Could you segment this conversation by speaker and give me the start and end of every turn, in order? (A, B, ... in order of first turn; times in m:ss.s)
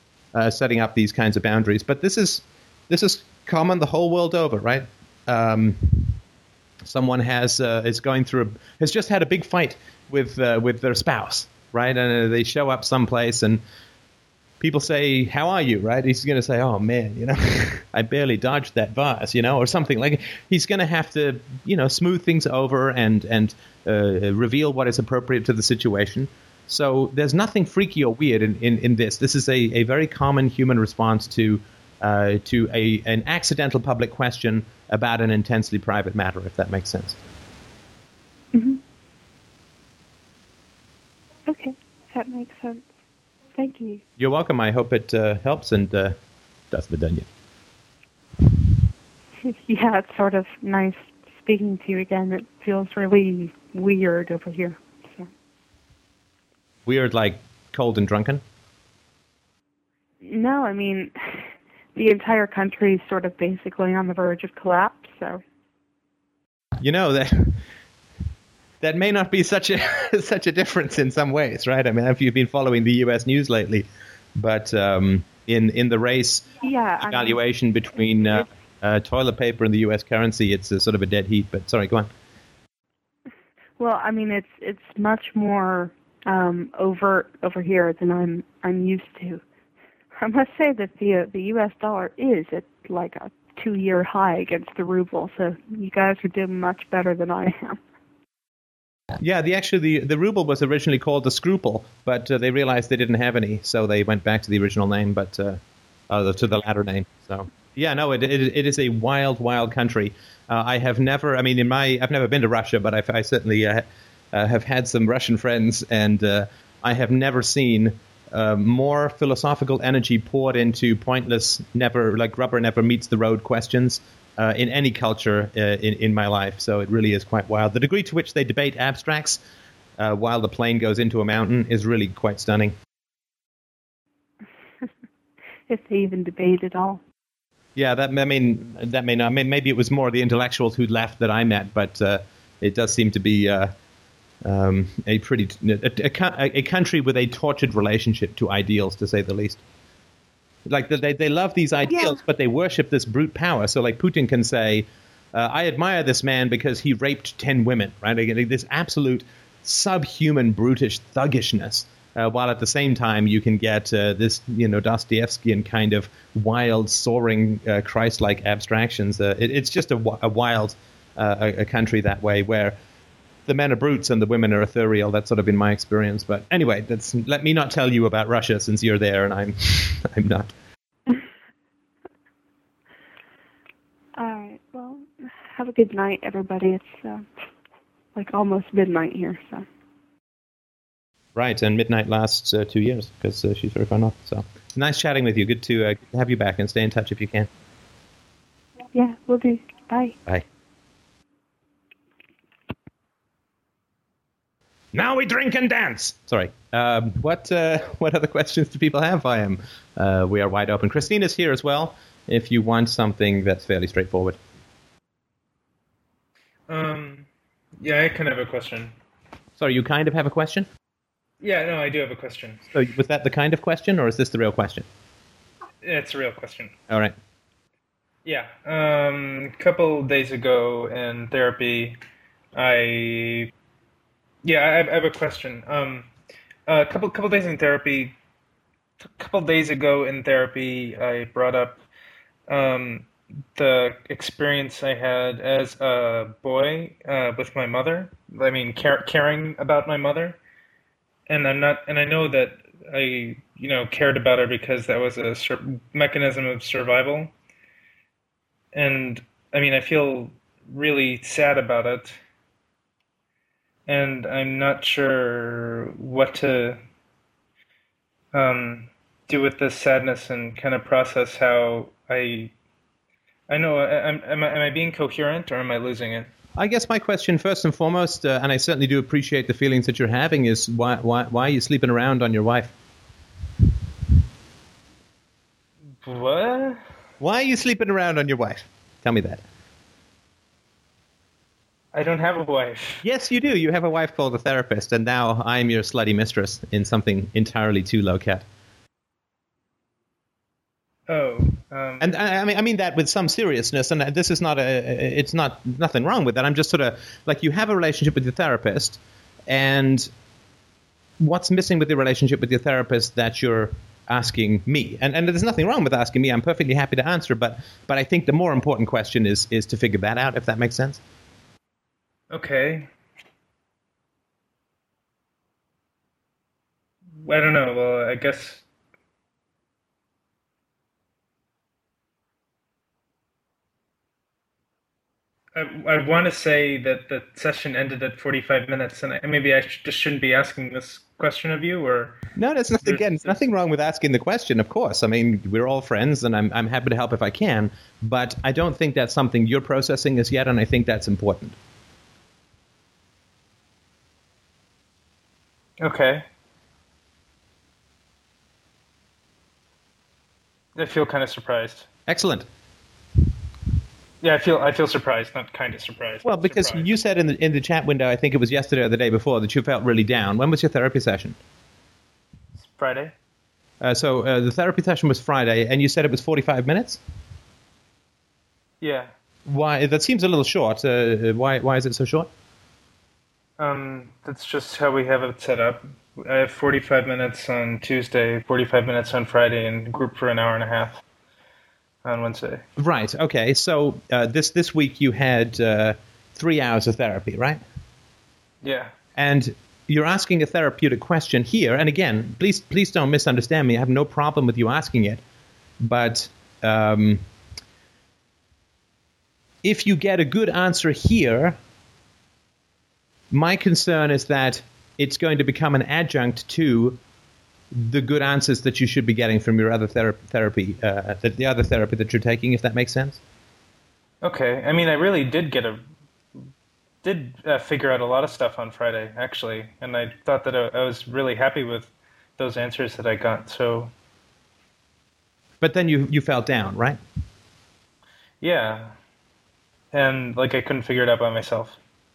0:00.3-0:06.2 A
0:06.8-0:13.6 A
0:14.6-0:37.2 A
0:38.5-0:38.8 B
0:41.4-0:42.8 B
0:43.6-0:44.0 B
0:44.2-0:46.1 A
0:46.7-0:47.3 A
0:49.4-0:55.3 B
0:56.8-0:58.4 A
1:00.2-1:05.4 B
1:06.8-1:07.6 A
1:08.8-1:22.1 A
1:16.6-1:17.4 B
1:23.8-1:29.4 B
1:30.2-1:37.8 B
1:39.2-2:09.4 A
2:10.0-2:12.7 A
2:15.7-2:17.0 B
2:17.8-2:23.7 A
2:24.4-2:29.6 A
2:30.7-2:52.8 A
2:31.9-2:32.2 B
2:53.5-3:00.5 A
3:04.2-3:07.3 B
3:08.1-3:09.7 B
3:11.3-3:17.5 A
3:18.9-3:20.2 B
3:24.9-3:34.4 A
3:36.7-3:37.3 C
3:37.8-3:38.9 C
3:39.6-3:40.7 A
3:41.4-3:42.6 C
3:42.7-3:44.8 A
3:45.8-3:46.7 C
3:46.9-3:47.2 A
3:48.2-3:52.0 C
3:52.5-3:53.5 C
3:54.4-3:56.1 C
3:56.7-3:58.1 C
3:59.2-4:01.8 C
4:02.5-4:10.4 C
4:11.3-4:17.3 C
4:18.7-4:22.2 C
4:23.9-4:26.8 C
4:28.3-4:32.5 C
4:33.5-4:36.3 C
4:36.6-4:42.7 A
4:46.0-4:46.8 C
4:47.2-4:49.4 A
4:51.9-4:53.0 C
4:53.0-4:58.4 A
5:01.1-5:02.1 C
5:02.0-5:10.1 A
5:11.2-5:21.0 A
5:22.3-5:22.9 C
5:27.2-5:28.6 C
5:35.5-5:42.2 C
5:42.4-5:51.6 A
5:42.8-5:43.4 C
5:55.8-5:56.2 C
6:00.8-6:01.9 C
6:02.1-6:02.5 A
6:04.2-6:06.9 C
6:06.2-6:11.4 A
6:12.6-6:13.1 C
6:13.8-6:17.0 A
6:18.8-6:19.1 C
6:19.5-6:22.3 A
6:23.6-6:31.0 C
6:32.0-6:32.6 C
6:32.8-6:37.6 A
6:38.6-6:38.9 C
6:39.2-6:45.2 A
6:45.8-6:47.2 A
6:49.6-6:51.6 A
6:53.3-6:57.0 A
6:57.7-7:03.2 A
7:04.2-7:05.8 C
7:07.0-7:13.9 C
7:15.6-7:17.0 A
7:18.4-7:18.9 C
7:19.9-7:21.8 C